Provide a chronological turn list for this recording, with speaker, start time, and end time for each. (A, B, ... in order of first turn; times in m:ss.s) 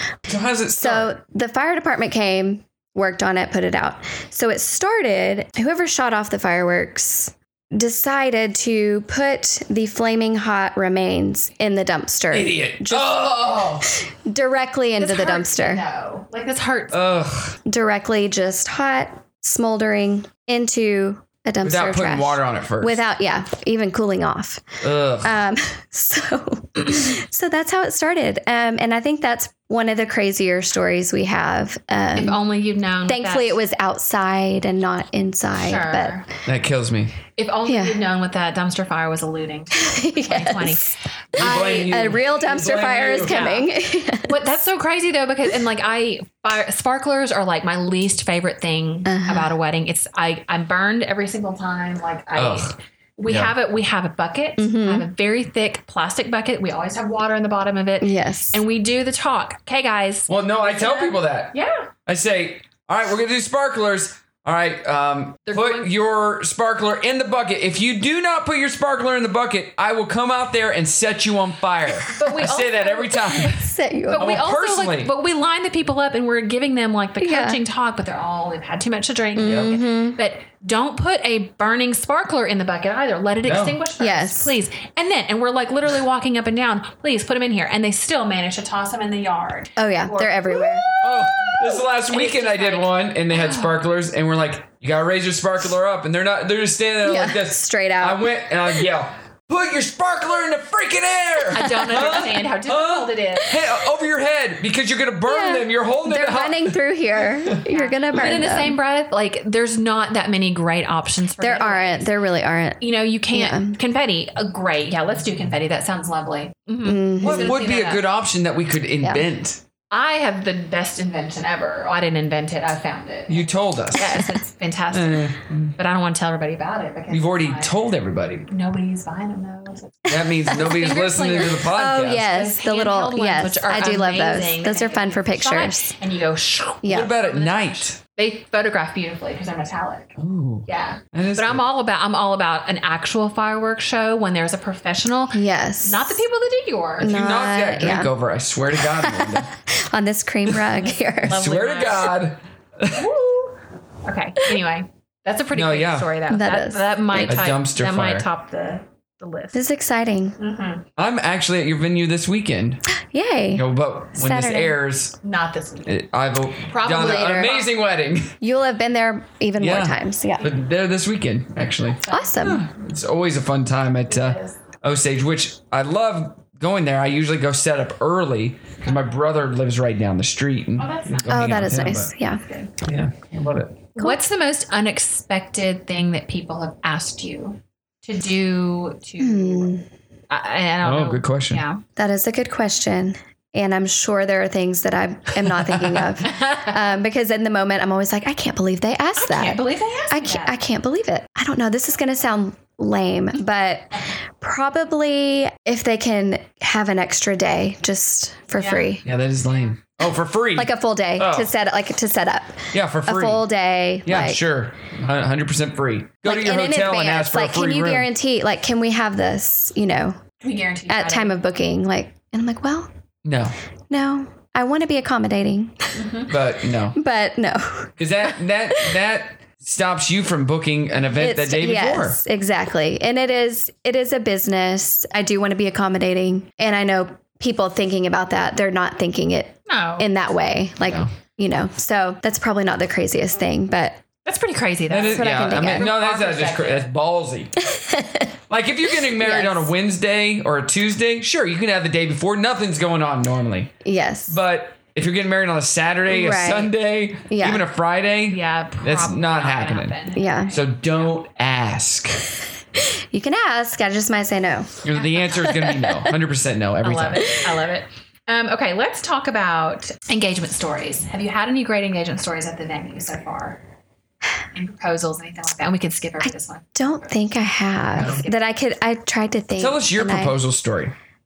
0:00.3-0:01.1 A
0:00.8-0:15.8 B
0:12.3-0:13.9 A
0:15.0-0:17.0 C
0:16.9-0:17.6 A
0:17.6-0:32.4 B
0:21.6-0:23.0 A
0:24.8-0:25.3 A
0:32.2-0:33.6 C
0:33.1-0:36.2 B
0:35.6-0:36.2 C
0:36.4-0:37.2 A
0:37.4-0:42.2 C
0:37.6-0:38.0 B
0:39.7-0:44.6 B
0:41.4-0:43.4 A
0:43.1-0:43.7 C
0:44.2-1:01.9 C
0:49.0-0:49.5 B
0:52.3-0:52.7 A
0:53.3-0:53.5 A
0:54.6-0:55.1 B
0:58.0-0:58.6 B
1:00.3-1:13.6 A
1:05.5-1:05.9 C
1:12.1-1:33.8 C
1:13.4-1:14.4 B
1:14.2-1:15.1 A
1:17.2-1:17.6 B
1:19.4-1:20.2 B
1:23.4-1:23.8 A
1:24.0-1:24.5 B
1:29.8-1:30.9 B
1:31.0-1:47.6 A
1:37.0-1:38.3 B
1:41.5-1:43.6 C
1:41.6-1:42.2 B
1:45.2-1:48.8 B
1:47.6-1:52.1 C
1:51.4-1:53.8 B
1:52.8-1:58.0 C
1:56.8-1:57.6 B
1:57.2-1:59.6 A
1:59.9-2:07.8 C
2:03.3-2:04.2 A
2:04.9-2:05.8 A
2:07.1-2:08.5 A
2:08.5-2:20.2 C
2:10.1-2:12.3 A
2:11.6-2:15.9 B
2:16.8-2:17.1 B
2:16.9-2:18.0 A
2:20.2-2:21.6 A
2:20.7-2:27.1 C
2:25.3-2:26.2 B
2:27.0-2:28.1 B
2:27.0-2:29.5 A
2:28.8-2:31.4 B
2:31.2-2:32.2 C
2:31.2-2:33.1 A
2:32.9-2:39.6 C
2:35.5-2:36.1 A
2:36.3-2:37.4 B
2:37.2-2:38.3 A
2:39.5-2:40.4 B
2:40.4-2:40.8 C
2:41.0-2:42.8 A
2:43.1-2:44.8 B
2:43.5-2:45.2 A
2:45.2-2:46.0 C
2:45.8-2:48.4 A
2:46.7-2:47.7 C
2:46.8-2:47.6 B
2:48.4-2:50.5 B
2:49.6-3:02.1 A
2:51.9-2:52.6 C
2:52.1-2:52.6 B
2:54.1-2:54.6 C
2:58.8-2:59.2 C
3:00.8-3:01.5 C
3:01.3-3:02.4 B
3:02.4-3:02.7 C
3:02.8-3:03.8 A
3:03.9-3:09.7 C
3:09.2-3:09.8 B
3:10.3-3:11.8 C
3:10.8-3:11.6 A
3:12.0-3:29.0 B
3:15.4-3:16.2 A
3:16.2-3:16.8 C
3:19.2-3:20.6 C
3:28.6-3:28.9 C
3:29.0-3:31.5 A
3:30.6-3:34.4 B
3:32.7-3:33.4 A
3:34.0-3:38.1 A
3:36.2-3:40.2 B
3:40.4-3:41.4 C
3:40.9-3:42.9 B
3:43.2-3:43.5 A
3:43.9-3:46.2 B
3:46.0-3:46.3 C
3:46.3-3:47.0 A
3:46.9-3:47.9 B
3:48.0-3:52.2 A
3:51.2-4:04.0 B
3:59.7-4:00.1 C
4:00.8-4:01.1 A
4:04.2-4:06.9 C
4:04.9-4:07.5 A
4:05.1-4:05.9 B
4:07.6-4:08.3 B
4:08.5-4:13.7 A
4:09.0-4:09.7 B
4:13.8-4:14.4 B
4:14.3-4:20.0 A
4:16.1-4:16.7 B
4:17.3-4:17.6 B
4:18.3-4:20.6 C
4:20.1-4:20.5 B
4:20.5-4:22.2 A
4:22.8-4:26.1 B
4:24.8-4:27.3 A
4:26.8-4:33.6 C
4:34.5-4:37.0 C
4:36.2-4:40.4 B
4:37.8-4:38.6 C
4:38.0-4:38.2 A
4:39.6-4:40.9 A